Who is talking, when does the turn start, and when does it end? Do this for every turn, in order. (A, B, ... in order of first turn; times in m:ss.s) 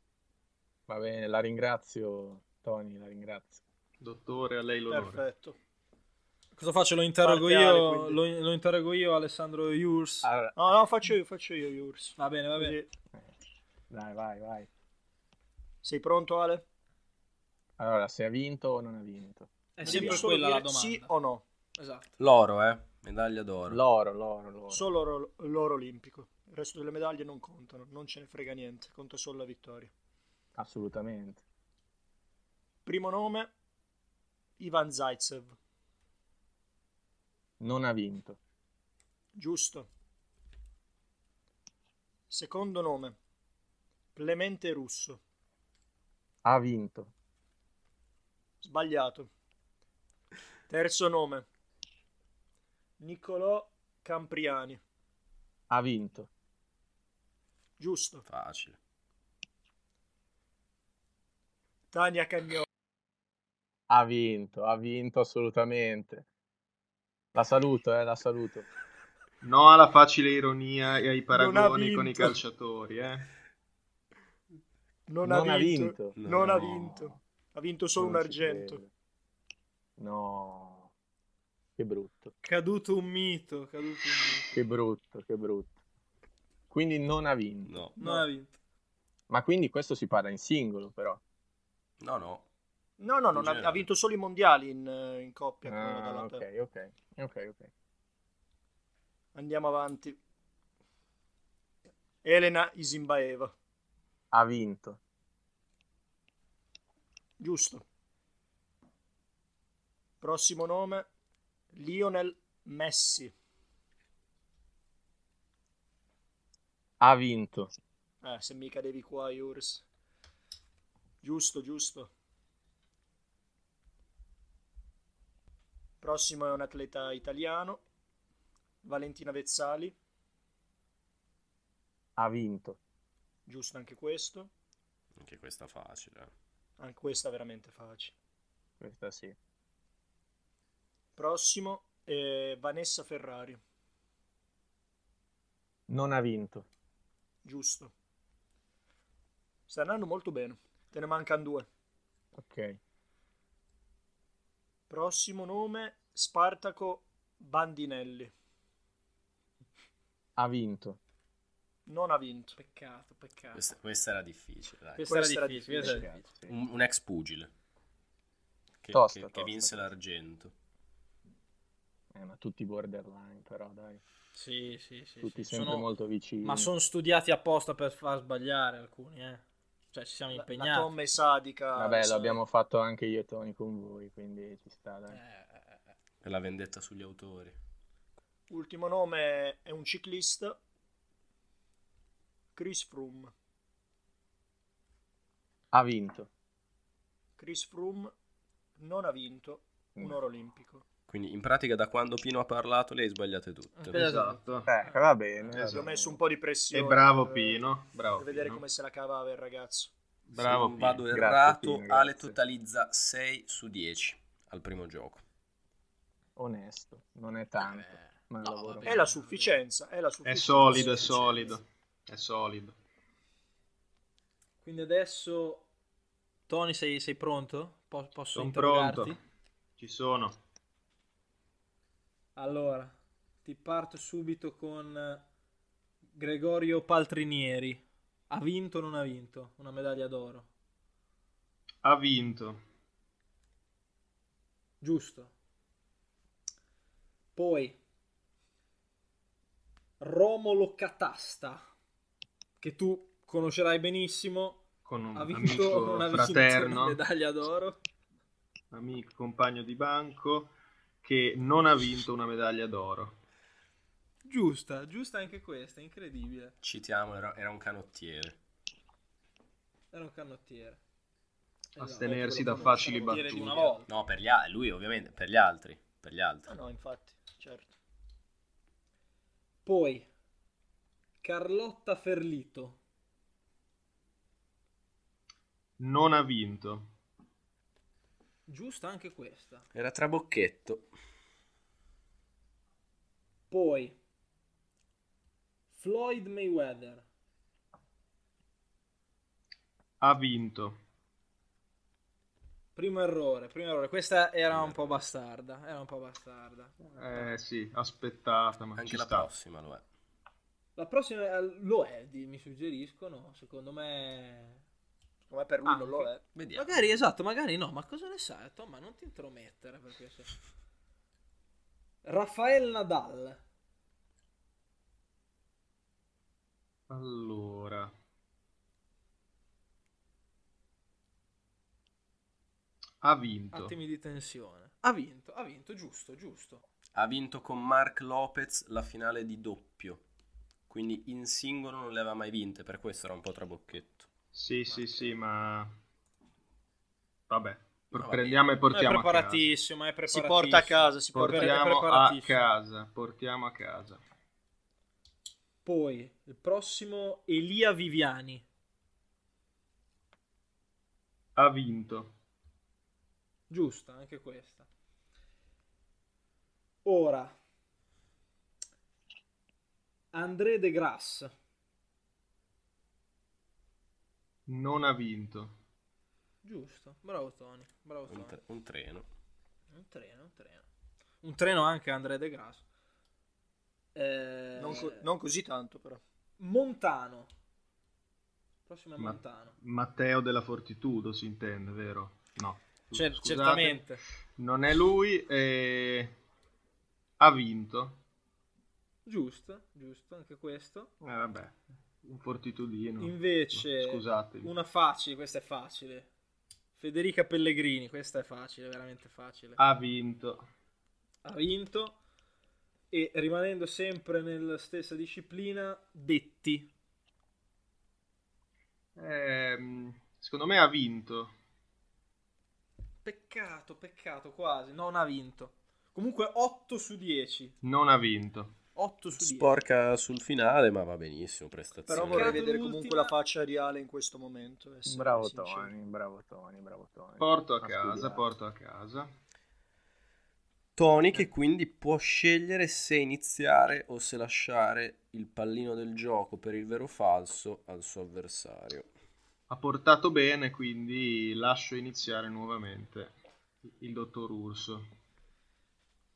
0:00.9-0:03.6 A
0:04.0-0:05.2 B
0:04.9-0:05.6 C
0:06.6-0:10.3 D
0:07.2-0:08.2 C
0:10.2-0:10.7 A
0:10.6-0:12.9 C
0:12.2-0:12.8 D
0:13.9-0:14.7 A
0:15.8-0:16.6 C
0:17.8-0:20.2 A
0:19.8-0:21.1 D
0:19.8-0:21.4 C
0:21.8-0:22.2 D
0:22.2-0:23.8 E
0:23.7-0:24.9 A
0:24.7-0:29.9 C
0:30.6-0:31.4 A
0:32.8-0:33.5 C
0:34.6-0:35.6 C
0:37.6-0:38.4 A
0:39.3-0:39.9 C
0:42.3-0:43.2 C
0:44.1-0:45.2 C
0:46.4-0:47.1 A
0:48.6-0:49.3 C
0:50.7-0:51.4 C
0:53.0-0:54.8 C
0:55.7-0:56.3 A
0:57.8-0:58.2 C
0:58.2-0:58.8 E
1:01.9-1:02.6 C
1:03.9-1:06.2 A
1:07.3-1:08.7 A
1:09.4-1:13.3 B
1:11.3-1:12.4 C
1:15.1-1:18.8 C
1:15.2-1:17.2 A
1:16.2-1:16.9 E
1:18.0-1:18.9 A
1:20.0-1:20.9 A
1:21.8-1:22.3 A
1:22.4-1:24.5 D
1:24.5-1:25.7 A
1:26.7-1:27.8 A
1:27.6-1:28.0 E
1:28.0-1:28.5 D
1:28.0-1:28.3 C
1:29.3-1:31.2 A
1:32.0-1:32.4 E
1:33.0-1:36.4 C
1:33.3-1:33.8 E
1:35.6-1:37.7 A
1:39.3-1:40.2 C
1:42.2-1:43.5 C
1:44.3-1:45.0 A
1:47.4-1:47.8 C
1:50.2-1:51.1 C
1:51.7-1:53.3 C
1:57.0-1:57.7 A
1:58.2-1:59.8 C
2:01.2-2:02.1 C
2:06.0-2:07.8 C
2:08.8-2:10.0 C
2:12.2-2:12.8 A
2:13.4-2:14.5 C
2:15.2-2:16.3 E
2:16.8-2:18.1 C
2:18.8-2:19.4 A
2:21.2-2:23.6 C
2:25.9-2:26.7 A
2:27.4-2:27.9 C
2:29.7-2:31.7 C
2:32.3-2:32.8 A
2:34.9-2:38.3 C
2:40.4-2:41.0 A
2:41.8-2:42.6 C
2:42.6-2:43.6 D
2:43.5-2:45.1 E
2:45.0-2:46.2 D
2:45.1-2:46.1 C
2:45.8-2:46.6 A
2:46.5-2:47.5 E
2:48.8-2:50.5 E
2:48.9-2:49.9 A
2:52.1-2:54.0 A
2:54.3-2:55.9 D
2:55.2-2:56.7 A
2:56.4-3:01.0 D
3:00.3-3:02.4 C
3:01.7-3:05.2 A
3:05.1-3:05.9 D
3:06.2-3:07.6 E
3:08.5-3:10.6 C
3:12.5-3:13.3 C
3:15.7-3:16.3 A
3:17.4-3:18.1 C
3:18.8-3:20.8 C
3:21.1-3:24.0 E
3:23.8-3:25.0 D
3:23.9-3:24.7 B
3:24.7-3:26.2 A
3:25.5-3:25.8 B
3:25.6-3:27.6 C
3:26.7-3:28.6 B
3:28.2-3:29.9 C
3:30.3-3:31.0 B
3:30.3-3:35.2 E
3:31.1-3:32.4 A
3:36.4-3:39.1 A
3:37.6-3:39.5 D
3:38.8-3:41.5 C
3:40.2-3:42.8 B
3:40.7-3:41.6 D
3:44.6-3:45.7 D
3:46.5-3:49.2 D
3:48.3-3:49.2 B
3:49.8-3:50.4 B
3:52.4-3:55.2 D
3:56.2-4:00.5 D
4:01.8-4:02.6 B
4:04.8-4:05.3 D
4:07.3-4:07.8 D
4:10.0-4:11.7 D
4:12.6-4:17.8 D
4:14.8-4:17.0 B
4:18.7-4:23.2 B
4:24.2-4:26.6 D
4:26.6-4:28.4 E
4:29.9-4:30.8 D
4:31.7-4:33.9 D
4:31.8-4:33.8 B
4:32.0-4:33.7 C
4:33.9-4:36.5 E
4:36.5-4:37.7 C
4:39.6-4:40.1 D
4:41.2-4:42.8 D
4:45.8-4:46.9 B
4:48.5-4:49.6 D
4:49.7-4:50.9 E
4:53.5-4:54.0 D
4:55.7-4:57.0 D
5:00.0-5:00.8 B
5:02.7-5:07.4 D
5:04.5-5:05.1 E
5:06.9-5:09.3 B
5:08.7-5:09.8 E
5:10.8-5:14.6 D
5:15.3-5:16.2 C
5:15.6-5:20.3 D
5:16.3-5:16.8 E
5:22.0-5:23.4 D
5:26.9-5:27.9 B
5:33.0-5:33.8 B
5:33.5-5:36.6 D
5:36.9-5:40.0 E
5:40.7-5:44.1 E
5:44.3-5:45.7 B
5:44.7-5:45.2 D
5:47.3-5:49.5 B
5:47.9-5:48.4 E
5:48.7-5:52.4 D
5:50.1-5:51.8 C
5:51.1-5:54.0 B
5:55.6-5:58.4 D
6:01.4-6:02.1 B
6:03.5-6:04.7 D
6:06.8-6:07.3 D
6:10.1-6:11.3 D
6:14.5-6:15.6 B
6:16.4-6:18.4 D
6:18.1-6:19.1 E
6:19.7-6:20.6 D
6:21.2-6:22.6 D
6:23.9-6:25.1 D
6:24.6-6:26.0 C
6:26.4-6:27.3 D
6:28.6-6:29.6 D
6:29.0-6:36.1 B
6:32.9-6:34.0 D
6:37.2-6:38.0 B
6:39.0-6:40.9 D
6:41.0-6:44.5 B
6:43.0-6:46.1 D
6:46.8-6:49.6 D
6:49.6-6:50.4 B
6:51.2-6:52.0 D
6:52.9-6:56.7 D
6:59.0-7:01.3 B
7:03.0-7:07.6 D
7:07.6-7:08.6 B
7:08.7-7:09.5 D
7:09.1-7:12.4 E
7:11.9-7:15.7 C
7:12.0-7:13.2 D
7:14.8-7:18.2 A
7:17.2-7:19.1 B
7:20.8-7:28.9 E
7:29.5-7:33.2 B
7:33.7-7:34.9 B